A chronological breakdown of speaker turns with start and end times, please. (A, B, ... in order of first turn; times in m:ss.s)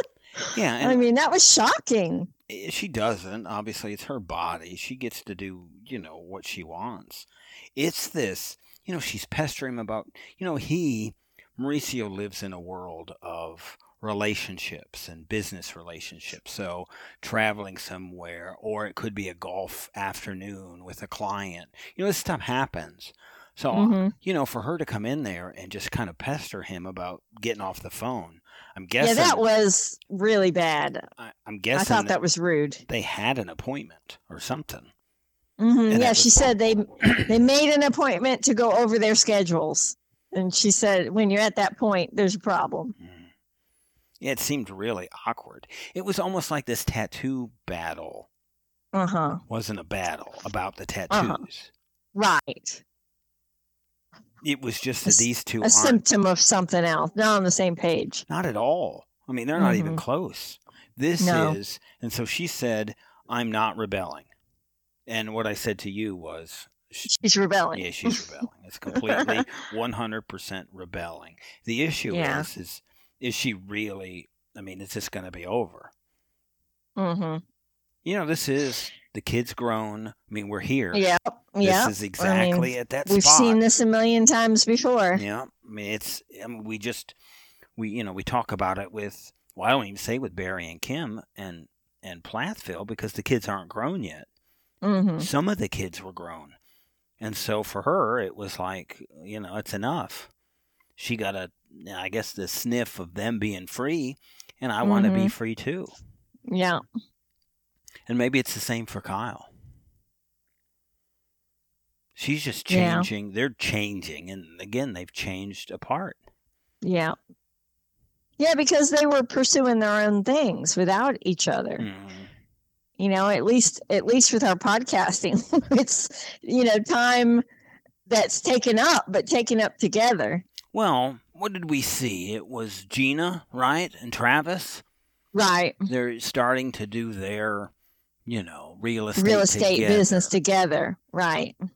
0:00.4-0:02.3 A
0:00.5-0:01.0 B
0:02.5-0:29.4 B
0:23.7-0:24.1 A
0:29.0-0:31.0 A
0:31.2-0:32.1 B
0:31.7-0:32.8 A
0:32.9-0:34.9 B
0:35.6-0:42.9 A
0:35.9-0:37.3 B
0:43.0-0:43.3 B
0:44.2-0:48.3 B
0:48.9-0:49.4 A
0:49.5-0:51.7 B
0:51.1-0:51.4 A
0:52.1-0:52.8 A
0:54.4-0:56.0 B
0:55.0-0:58.2 A
0:58.3-1:04.3 B
0:59.6-1:00.0 A
1:01.2-1:01.6 A
1:05.1-1:07.1 B
1:07.0-1:08.2 A
1:07.7-1:15.9 B
1:08.9-1:09.4 A
1:12.1-1:12.5 A
1:17.0-1:17.4 A
1:18.0-1:21.1 B
1:20.9-1:25.2 A
1:21.6-1:23.6 B
1:25.2-1:27.1 B
1:27.8-1:34.3 B
1:34.8-1:35.3 A
1:35.2-1:36.6 B
1:37.2-1:40.3 B
1:41.0-1:45.9 B
1:44.8-1:45.3 A
1:46.5-1:46.8 A
1:48.1-1:49.5 B
1:52.2-1:56.2 B
1:52.7-1:53.1 A
1:56.8-1:57.2 A
1:58.4-2:01.8 A
2:01.8-2:02.3 B
2:03.0-2:07.4 A
2:08.0-2:10.4 A
2:10.7-2:14.8 B
2:15.3-2:15.8 A
2:15.9-2:17.7 B
2:18.2-2:20.3 B
2:19.2-2:21.5 A